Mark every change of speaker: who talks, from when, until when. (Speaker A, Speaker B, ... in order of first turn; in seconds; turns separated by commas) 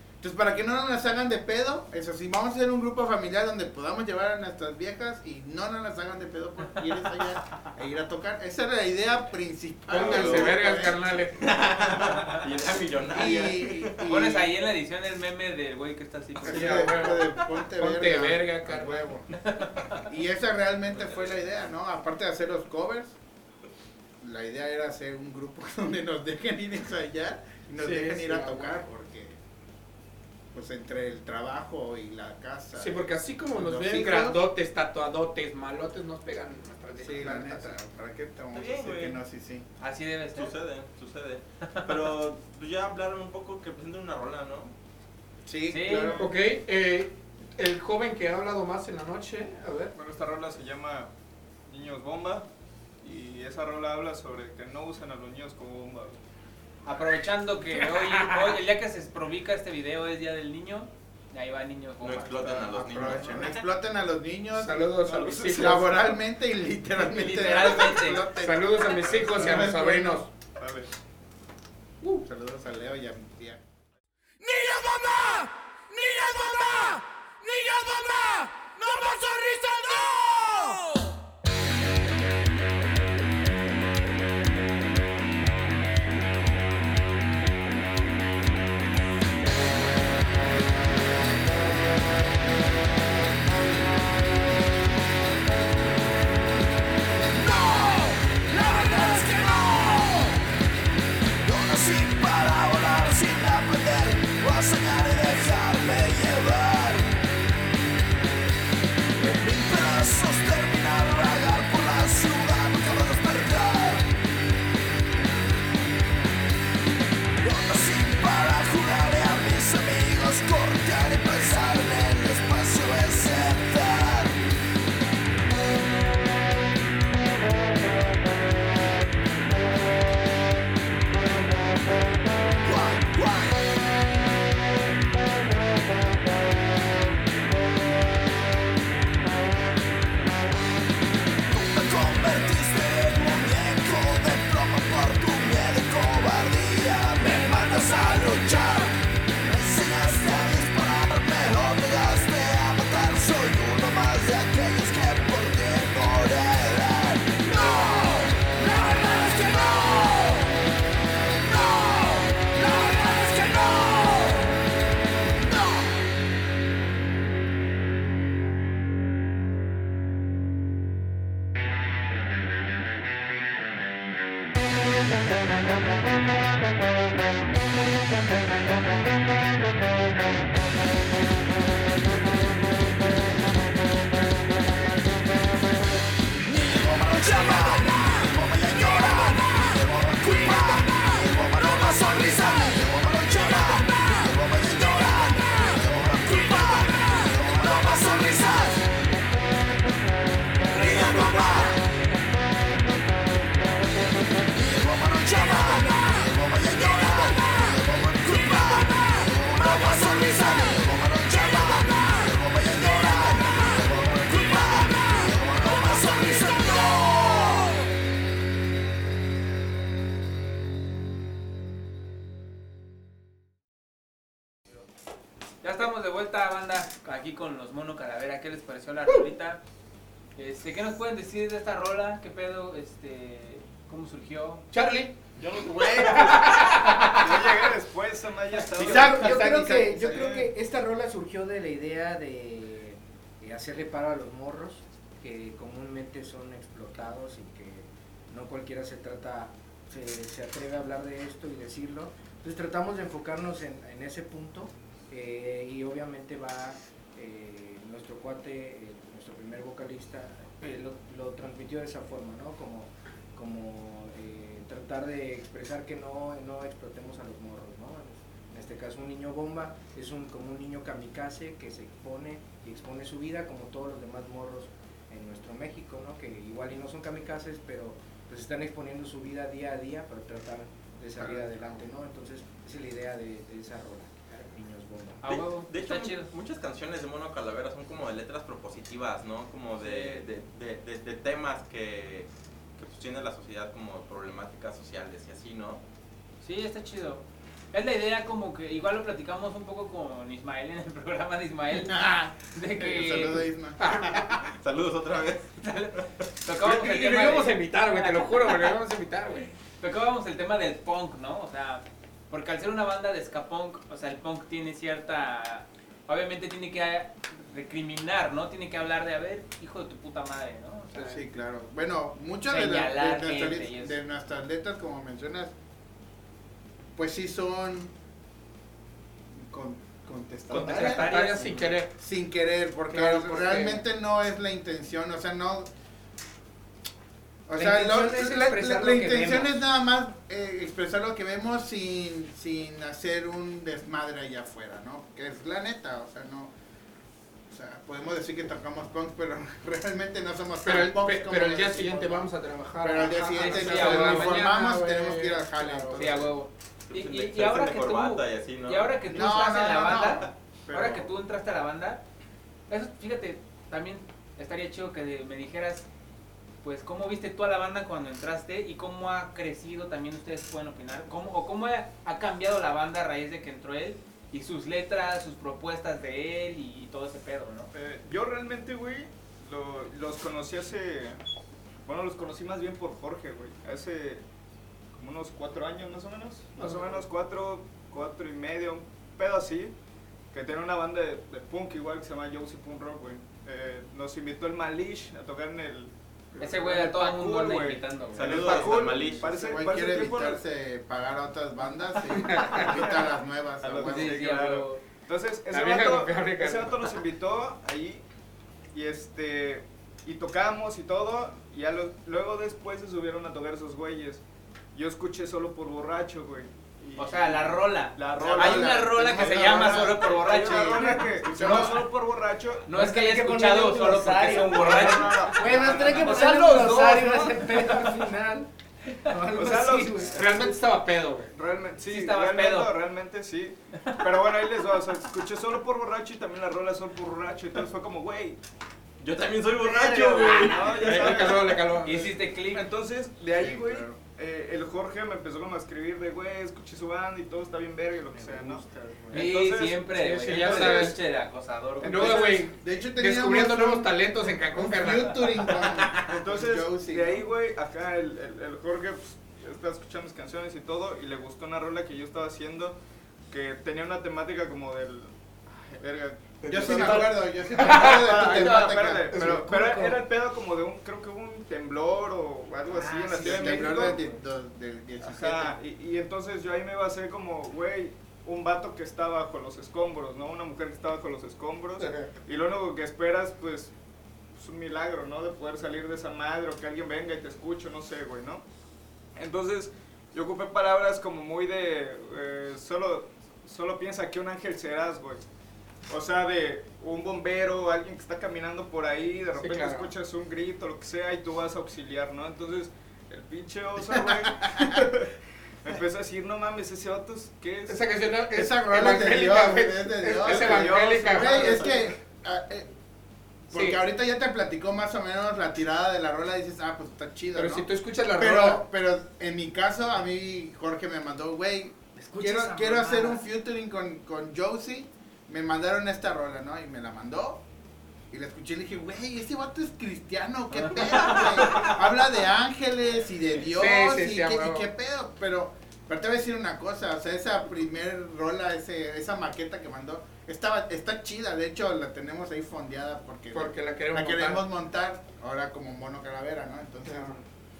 Speaker A: 0.2-11.0, Speaker B: 9.9-11.6, Speaker C: 10.0-10.6, Speaker C: 11.4-13.9, Speaker A: 13.1-14.5, Speaker D: 14.0-16.9, Speaker A: 16.4-19.3, Speaker B: 16.4-19.1, Speaker D: 19.5-19.9, Speaker A: 20.1-23.2, Speaker C: 20.9-21.3, Speaker A: 24.2-29.4, Speaker B: 27.8-28.8, Speaker A: 30.5-34.4, Speaker B: 32.8-37.8, Speaker A: 37.0-39.7, Speaker C: 38.5-39.2, Speaker D: 39.8-40.5, Speaker C: 40.3-44.7, Speaker A: 45.5-46.2, Speaker D: 45.7-46.1, Speaker E: 45.9-46.3, Speaker B: 46.1-49.9, Speaker E: 50.0-51.1, Speaker E: 51.7-52.5, Speaker E: 53.0-56.2, Speaker D: 56.9-62.8, Speaker B: 57.8-58.6, Speaker C: 62.0-63.6, Speaker A: 62.7-70.3, Speaker E: 63.1-63.4, Speaker B: 64.5-65.8, Speaker E: 65.0-65.9, Speaker D: 67.0-68.3, Speaker B: 68.4-70.3, Speaker E: 69.3-69.7, Speaker E: 70.6-70.9, Speaker A: 72.2-73.6, Speaker F: 74.5-75.4, Speaker F: 76.0-76.9, Speaker F: 77.5-80.7, Speaker F: 97.3-100.4, Speaker F: 101.4-107.1, Speaker F: 109.2-114.1, Speaker F: 117.4-124.4, Speaker F: 132.6-133.6, Speaker F: 141.5-160.6, Speaker F: 161.4-164.6, Speaker F: 165.4-166.0, Speaker F: 186.4-198.9, Speaker F: 200.7-201.8, Speaker F: 204.5-217.9, Speaker D: 225.6-229.6, Speaker D: 230.4-234.7, Speaker B: 234.7-235.2, Speaker E: 235.4-240.5, Speaker B: 235.8-237.7, Speaker A: 238.8-240.3, Speaker G: 238.8-285.2, Speaker A: 281.2-281.6, Speaker D: 285.2-286.3, Speaker C: 285.3-295.8, Speaker D: 289.8-290.2, Speaker D: 296.4-302.0, Speaker A: 301.7-304.4, Speaker D: 302.5-303.5, Speaker B: 303.8-304.3, Speaker C: 304.5-305.5, Speaker D: 305.6-308.7, Speaker B: 306.6-309.5, Speaker D: 309.8-321.2, Speaker A: 320.9-325.5, Speaker D: 322.5-324.0, Speaker A: 327.0-327.9, Speaker A: 329.3-331.1, Speaker D: 330.5-331.8, Speaker B: 330.5-331.9, Speaker A: 332.0-335.7, Speaker B: 332.9-333.8, Speaker A: 337.5-346.5, Speaker G: 337.5-339.5, Speaker A: 347.5-356.4, Speaker B: 350.6-356.1, Speaker D: 353.4-354.5, Speaker D: 355.9-362.0, Speaker C: 356.9-358.9, Speaker A: 359.1-360.3, Speaker E: 360.7-361.1, Speaker D: 362.7-365.9, Speaker D: 366.6-377.7, Speaker E: 377.7-381.2, Speaker E: 381.9-384.2, Speaker E: 384.9-389.7, Speaker B: 386.6-387.0, Speaker E: 390.3-395.9, Speaker B: 396.4-396.9, Speaker D: 396.4-398.5, Speaker E: 396.5-400.4, Speaker C: 398.1-399.4, Speaker A: 399.2-404.2, Speaker B: 402.1-402.7, Speaker E: 402.6-403.1, Speaker E: 403.6-408.0, Speaker D: 403.6-404.8, Speaker B: 405.5-406.9, Speaker E: 408.7-414.2, Speaker E: 414.7-422.7, Speaker D: 417.0-421.6, Speaker A: 418.2-421.8, Speaker D: 422.7-427.0, Speaker G: 422.7-430.2, Speaker E: 424.4-427.4, Speaker E: 429.3-430.6, Speaker B: 430.1-431.3, Speaker E: 431.3-438.4, Speaker D: 431.9-432.7, Speaker C: 439.0-441.4, Speaker E: 439.6-451.0, Speaker B: 440.6-442.2, Speaker D: 441.8-442.6, Speaker A: 443.3-444.0, Speaker G: 448.2-449.1, Speaker D: 449.1-452.3, Speaker B: 449.9-451.0, Speaker E: 451.8-452.5, Speaker B: 451.8-455.5, Speaker A: 452.4-457.3, Speaker E: 456.0-462.8, Speaker E: 463.3-474.0, Speaker B: 466.4-468.6, Speaker A: 466.5-469.3, Speaker B: 469.1-469.6, Speaker G: 469.1-470.0, Speaker D: 472.8-473.6, Speaker A: 473.2-475.6, Speaker E: 475.0-483.7, Speaker B: 481.8-482.1, Speaker E: 484.4-488.4, Speaker E: 489.2-495.2, Speaker E: 495.9-505.1, Speaker B: 499.4-499.9, Speaker A: 504.5-504.8, Speaker E: 505.6-507.8, Speaker B: 507.7-511.8, Speaker A: 508.3-512.7, Speaker E: 510.2-511.9, Speaker A: 513.5-527.4, Speaker B: 513.5-513.8, Speaker B: 517.4-518.6, Speaker G: 522.0-523.2, Speaker A: 528.1-547.2, Speaker D: 531.1-531.7, Speaker B: 533.5-534.7, Speaker B: 543.3-544.4, Speaker B: 546.9-547.2